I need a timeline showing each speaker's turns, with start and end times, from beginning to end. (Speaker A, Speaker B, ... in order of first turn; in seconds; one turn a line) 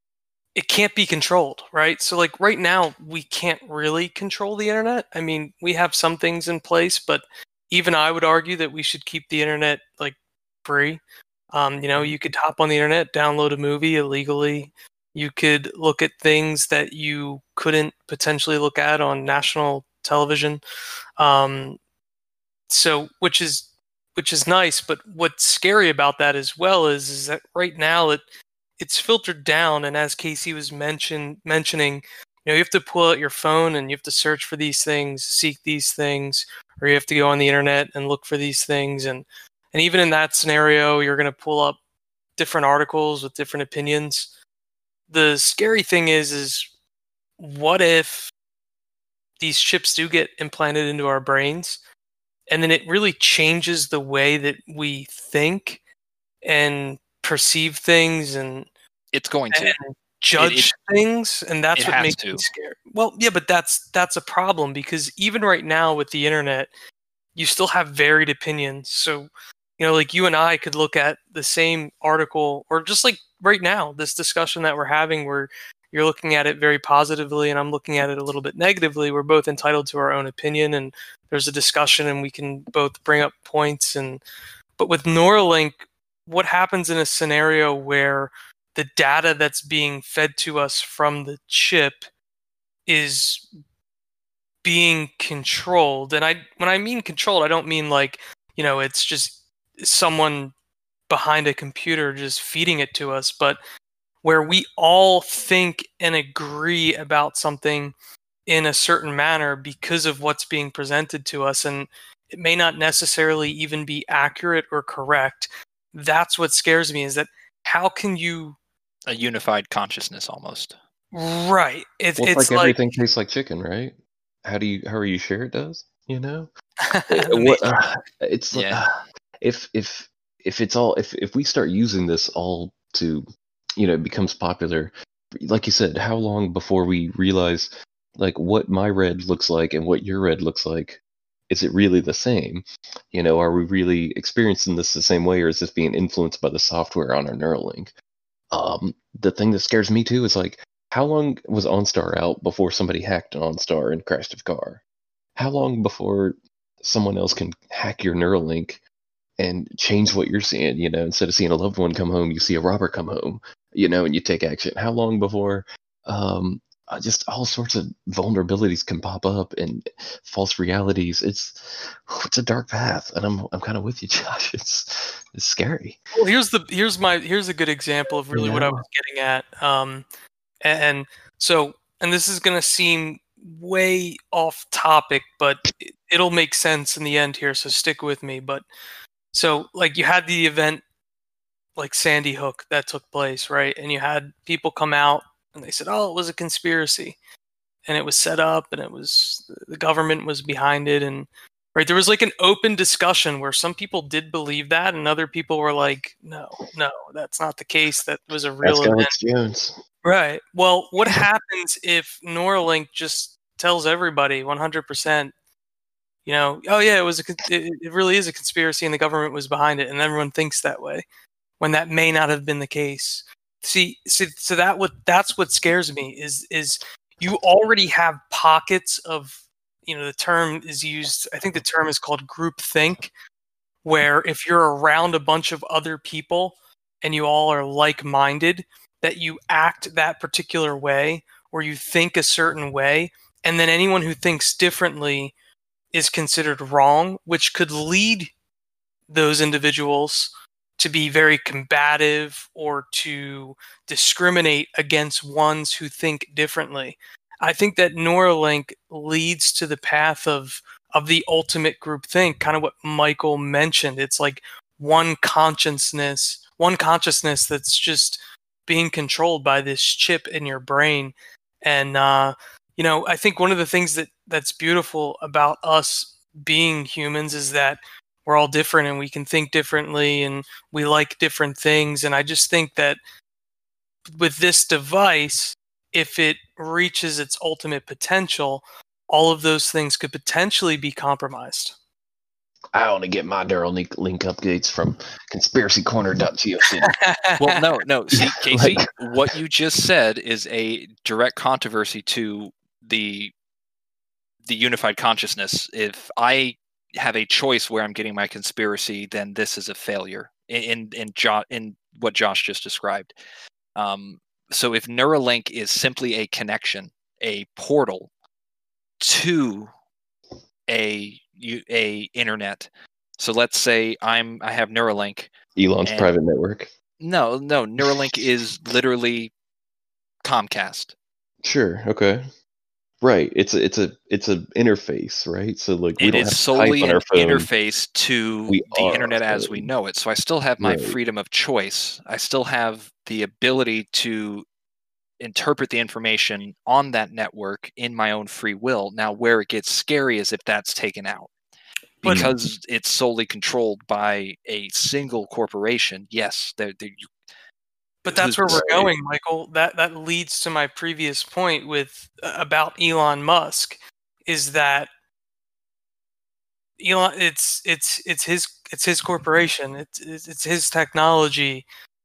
Speaker A: 0.5-20.6
Speaker A: 21.2-21.8
Speaker A: 22.7-28.2
Speaker A: 28.8-41.8
Speaker A: 42.4-44.3
Speaker A: 45.1-46.7
Speaker A: 47.4-48.3
Speaker A: 49.4-51.8
Speaker A: 52.5-55.8
Speaker A: 56.4-58.7
Speaker B: 59.1-59.8
Speaker A: 59.5-66.7
Speaker B: 60.4-60.7
Speaker B: 61.8-62.5
Speaker A: 67.3-84.2
Speaker A: 84.8-92.0
Speaker A: 92.8-93.5
Speaker A: 94.6-100.5
Speaker A: 101.1-103.6
Speaker A: 104.2-107.9
Speaker A: 108.5-118.6
Speaker B: 119.1-120.7
Speaker A: 121.1-122.9
Speaker C: 122.2-126.5
Speaker A: 126.9-127.6
Speaker C: 127.1-128.9
Speaker B: 128.5-128.8
Speaker C: 129.4-147.9
Speaker C: 148.5-154.8
Speaker C: 155.3-158.8
Speaker C: 159.4-176.0
Speaker A: 176.1-180.1
Speaker C: 178.3-178.8
Speaker A: 180.6-188.6
Speaker A: 189.3-190.8
Speaker A: 191.8-197.2
Speaker A: 197.8-209.2
Speaker C: 208.6-209.8
Speaker A: 210.0-215.3
Speaker A: 216.2-221.0
Speaker A: 221.6-233.1
Speaker A: 233.8-245.3
Speaker A: 245.9-248.3
Speaker A: 249.1-283.0
Speaker A: 284.1-291.8
Speaker C: 292.7-296.9
Speaker A: 296.9-297.6
Speaker B: 297.4-303.3
Speaker C: 298.2-298.9
Speaker B: 304.4-313.1
Speaker B: 313.8-318.1
Speaker B: 319.0-319.7
Speaker B: 320.7-326.1
Speaker C: 325.6-326.7
Speaker B: 327.0-329.3
Speaker B: 330.2-330.9
Speaker C: 331.4-332.3
Speaker C: 333.0-337.5
Speaker B: 336.0-344.4
Speaker C: 338.5-339.7
Speaker C: 340.6-341.0
Speaker B: 345.2-351.3
Speaker A: 352.0-352.3
Speaker C: 352.0-352.3
Speaker B: 352.0-357.1
Speaker A: 358.0-364.9
Speaker B: 358.1-358.9
Speaker C: 358.5-358.9
Speaker A: 366.8-371.6